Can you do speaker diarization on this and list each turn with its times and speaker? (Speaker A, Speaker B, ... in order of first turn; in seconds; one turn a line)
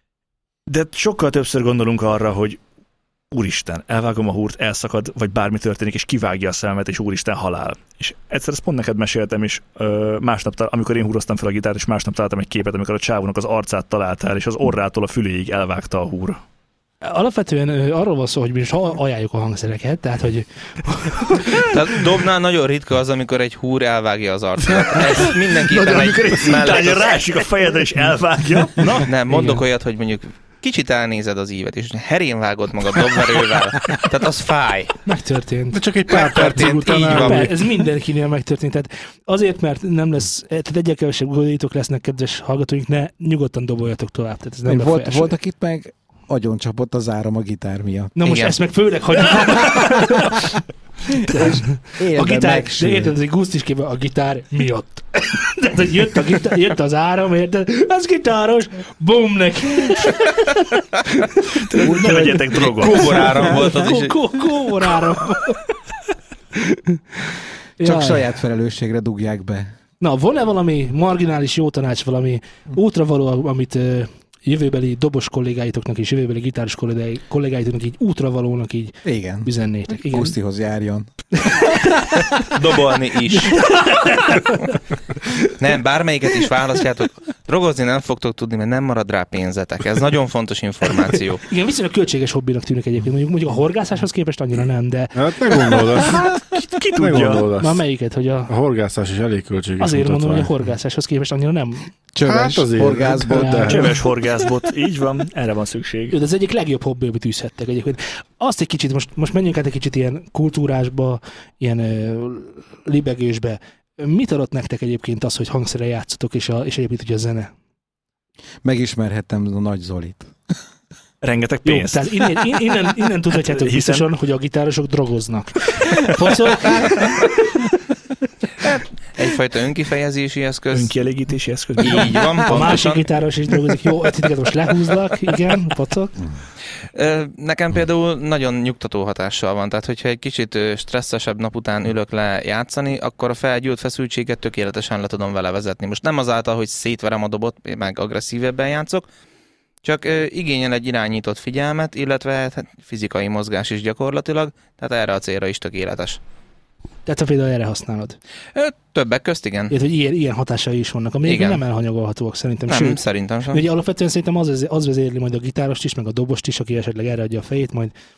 Speaker A: 0.7-2.6
Speaker A: 3.3-16.4
Speaker B: 17.0-21.9
Speaker C: 21.7-27.2
Speaker A: 25.2-29.1
Speaker D: 25.9-26.5
Speaker B: 28.8-29.6
Speaker C: 29.1-35.0
Speaker B: 35.0-35.8
Speaker D: 35.7-37.5
Speaker C: 36.1-37.5
Speaker B: 37.0-45.3
Speaker E: 44.7-48.2
Speaker B: 48.2-50.5
Speaker C: 48.2-48.6
Speaker E: 51.1-53.1
Speaker B: 51.2-65.7
Speaker A: 61.7-63.3
Speaker C: 62.5-64.2
Speaker B: 66.5-68.3
Speaker E: 67.8-69.7
Speaker B: 70.0-80.3
Speaker E: 79.0-81.6
Speaker B: 81.5-82.5
Speaker C: 82.5-83.7
Speaker B: 83.2-85.5
Speaker C: 85.6-91.5
Speaker B: 91.4-95.8
Speaker D: 95.2-96.5
Speaker A: 96.0-97.5
Speaker D: 97.0-97.8
Speaker B: 97.6-98.5
Speaker D: 98.5-100.5
Speaker B: 99.8-101.9
Speaker E: 102.2-103.7
Speaker D: 102.2-104.0
Speaker B: 103.3-104.0
Speaker A: 103.7-106.2
Speaker B: 106.1-117.5
Speaker E: 118.6-120.3
Speaker A: 121.2-122.3
Speaker B: 121.7-127.6
Speaker A: 123.3-124.1
Speaker C: 129.2-130.9
Speaker A: 130.7-132.5
Speaker C: 131.8-133.1
Speaker B: 132.4-136.2
Speaker C: 136.9-149.1
Speaker C: 149.8-156.2
Speaker B: 157.1-158.2
Speaker C: 158.6-159.7
Speaker B: 159.7-163.0
Speaker C: 161.2-161.6
Speaker C: 162.7-163.6
Speaker B: 163.5-167.9